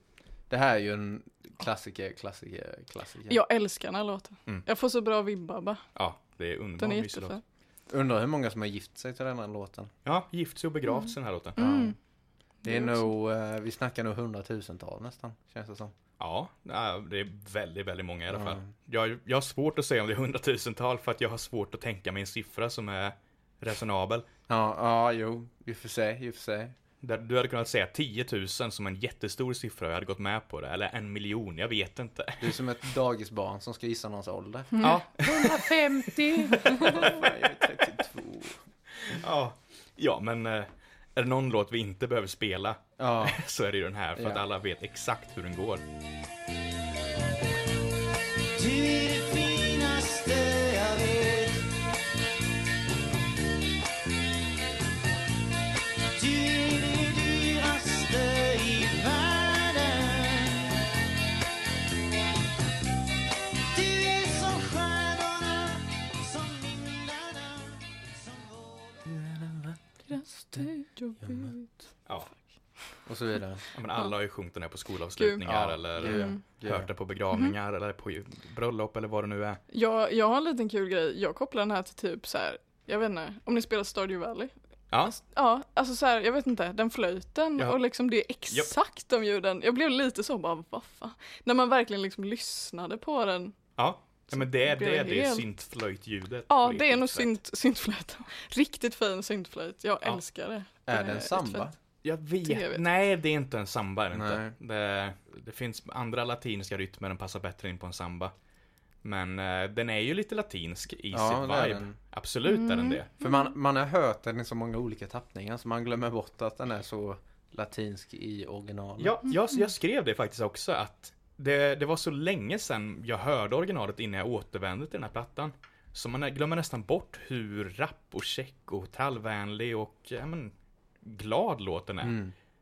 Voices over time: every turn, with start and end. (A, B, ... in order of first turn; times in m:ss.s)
0:00.5-0:03.4 A
0:03.3-0:05.8 B
0:06.0-0:07.4 C
0:06.8-0:07.4 B
0:07.9-0:09.9 A
0:10.0-0:11.6 C
0:10.9-0:12.0 B
0:11.6-0:12.0 A
0:12.6-0:13.1 B
0:12.6-0:15.9 A
0:16.2-0:24.2 C
0:18.3-0:18.7 A
0:24.5-0:26.8 A
0:27.0-0:32.6 C
0:32.4-0:38.6 A
0:34.7-0:35.0 B
0:34.8-0:35.6 C
0:36.8-0:37.1 C
0:39.0-0:45.8 C
0:43.0-0:43.4 A
0:44.2-0:44.4 A
0:48.9-0:51.5 D
0:56.5-1:00.6 D
1:03.8-1:07.6 D
1:08.3-1:08.7 D
1:09.1-1:09.8 A
1:10.1-1:11.7 B
1:11.2-1:11.5 A
1:12.0-1:12.3 C
1:13.0-1:13.6 A
1:13.7-1:19.6 C
1:15.2-1:15.4 B
1:15.4-1:16.9 A
1:16.0-1:16.4 B
1:19.7-1:24.5 B
1:24.9-1:25.2 C
1:25.1-1:33.5 B
1:33.8-1:37.3 C
1:34.3-1:35.4 B
1:36.5-1:41.7 B
1:40.8-1:41.8 A
1:42.0-1:48.3 C
1:42.4-1:42.8 B
1:44.1-1:44.5 A
1:49.0-1:53.1 C
1:51.1-1:51.9 A
1:52.4-1:53.5 B
1:53.2-1:59.2 A
1:59.0-2:12.2 C
2:12.0-2:12.3 A